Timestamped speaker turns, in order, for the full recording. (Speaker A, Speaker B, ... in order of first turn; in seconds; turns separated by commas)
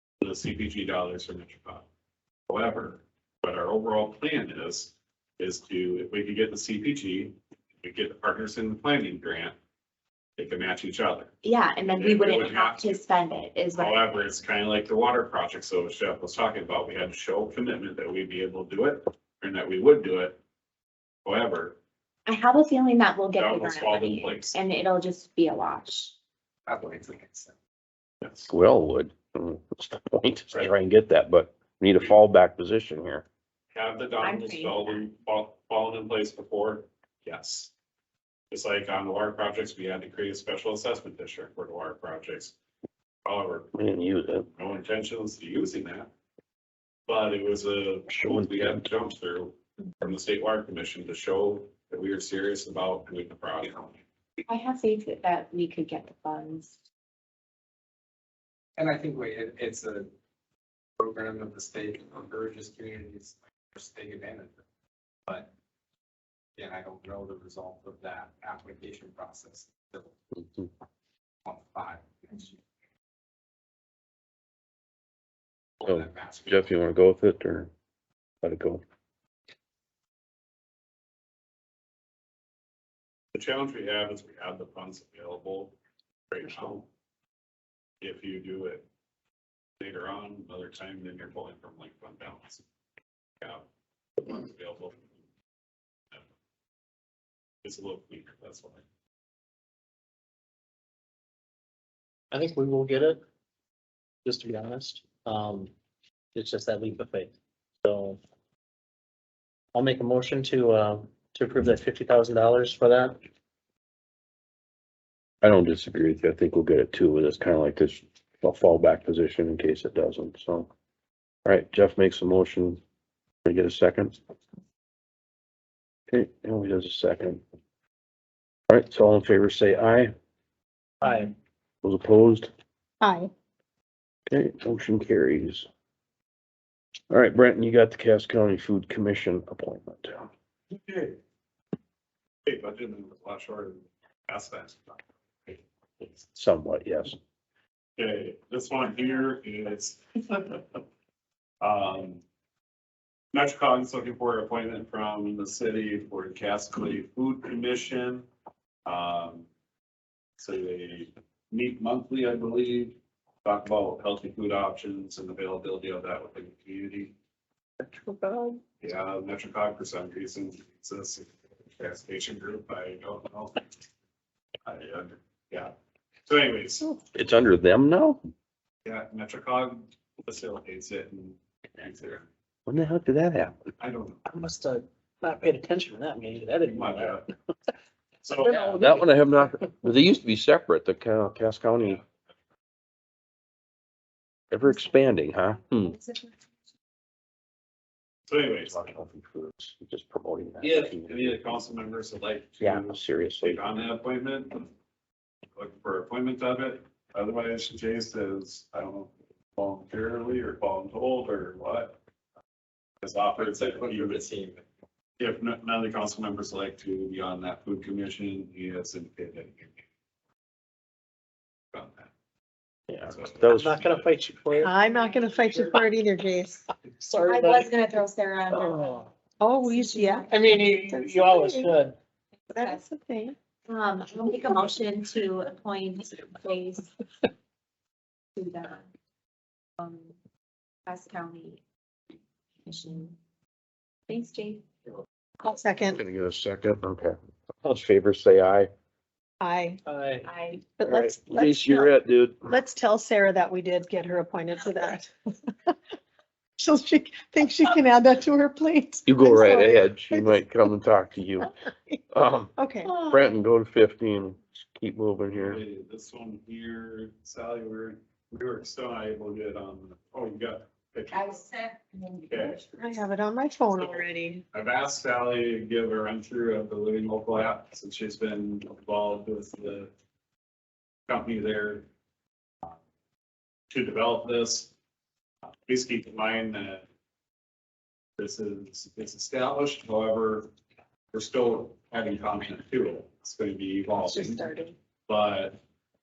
Speaker A: 0.2-1.9, Speaker A: 2.5-9.6, Speaker A: 10.4-11.3, Speaker B: 11.4-14.0, Speaker A: 12.0-20.4, Speaker A: 21.2-21.8, Speaker B: 22.3-26.1, Speaker A: 23.4-24.6, Speaker C: 26.7-27.5, Speaker A: 28.2-28.5, Speaker D: 28.5-33.2, Speaker A: 33.7-37.7, Speaker B: 34.2-34.9, Speaker A: 38.5-42.5, Speaker A: 43.2-43.7, Speaker D: 43.8-44.5, Speaker A: 44.5-46.1, Speaker A: 47.1-54.0, Speaker D: 48.1-48.9, Speaker B: 54.5-56.8, Speaker C: 58.8-60.1, Speaker C: 61.0-64.6, Speaker C: 66.6-70.1, Speaker C: 71.5-72.6, Speaker C: 75.8-76.7, Speaker D: 75.8-77.7, Speaker D: 78.4-78.8, Speaker A: 83.3-85.8, Speaker A: 86.3-86.9, Speaker A: 88.0-88.9, Speaker A: 89.8-92.6, Speaker A: 93.4-93.7, Speaker A: 94.2-95.0, Speaker A: 97.6-98.8, Speaker E: 102.3-103.2, Speaker E: 104.2-105.7, Speaker E: 106.3-107.3, Speaker E: 107.8-108.2, Speaker E: 109.7-113.2, Speaker D: 115.4-120.7, Speaker D: 121.5-122.8, Speaker D: 123.5-124.2, Speaker D: 126.1-127.4, Speaker D: 128.7-130.1, Speaker E: 131.0-131.3, Speaker D: 131.8-132.5, Speaker F: 133.0-133.3, Speaker D: 134.3-135.7, Speaker D: 137.1-140.3, Speaker A: 140.8-141.2, Speaker A: 142.5-145.6, Speaker D: 146.3-147.2, Speaker A: 148.0-150.8, Speaker A: 151.6-152.2, Speaker A: 153.3-158.3, Speaker A: 158.9-159.5, Speaker A: 160.4-167.1, Speaker E: 168.0-168.6, Speaker A: 168.8-173.6, Speaker A: 174.7-175.7, Speaker A: 176.3-177.0, Speaker D: 177.1-178.2, Speaker A: 178.8-182.3, Speaker D: 182.7-183.6, Speaker A: 183.8-184.2, Speaker E: 184.3-187.2, Speaker A: 186.7-187.3, Speaker A: 188.2-188.8, Speaker E: 188.4-189.1, Speaker D: 188.8-192.0, Speaker D: 194.5-196.0, Speaker B: 194.7-196.4, Speaker A: 198.3-198.9, Speaker D: 198.7-201.6, Speaker A: 200.6-204.7, Speaker D: 202.6-203.6, Speaker A: 205.6-212.0, Speaker A: 213.0-214.2, Speaker C: 213.4-214.7, Speaker A: 215.2-219.8, Speaker A: 221.7-222.1, Speaker D: 222.9-223.8, Speaker A: 223.1-224.1, Speaker E: 223.5-224.8, Speaker F: 224.6-226.7, Speaker B: 224.8-225.3, Speaker E: 225.3-225.8, Speaker E: 227.0-227.7, Speaker B: 227.2-229.0, Speaker E: 228.7-229.1, Speaker F: 229.4-231.8, Speaker B: 229.6-230.3, Speaker E: 230.3-232.0, Speaker B: 232.5-232.8, Speaker F: 232.5-233.4, Speaker B: 233.7-236.9, Speaker B: 238.4-238.9, Speaker B: 239.8-240.2, Speaker B: 240.9-241.6, Speaker B: 242.7-243.2, Speaker B: 244.1-244.7, Speaker F: 245.4-246.0, Speaker D: 245.9-248.7, Speaker F: 249.4-249.8, Speaker E: 249.9-250.3, Speaker B: 250.2-250.7, Speaker F: 250.8-251.9, Speaker D: 250.8-252.5, Speaker F: 252.5-255.8, Speaker F: 256.6-260.5, Speaker D: 259.1-261.5, Speaker F: 261.7-262.0, Speaker D: 262.1-262.6, Speaker F: 262.6-263.0, Speaker B: 262.8-263.4, Speaker D: 263.1-265.6, Speaker A: 265.3-271.5, Speaker B: 271.1-272.7, Speaker A: 272.3-272.6, Speaker F: 272.8-274.4, Speaker A: 273.8-279.9, Speaker A: 281.1-281.9, Speaker A: 283.7-284.7, Speaker A: 285.7-286.9, Speaker A: 288.2-290.5, Speaker A: 291.1-294.5, Speaker F: 294.0-294.8, Speaker A: 295.1-295.6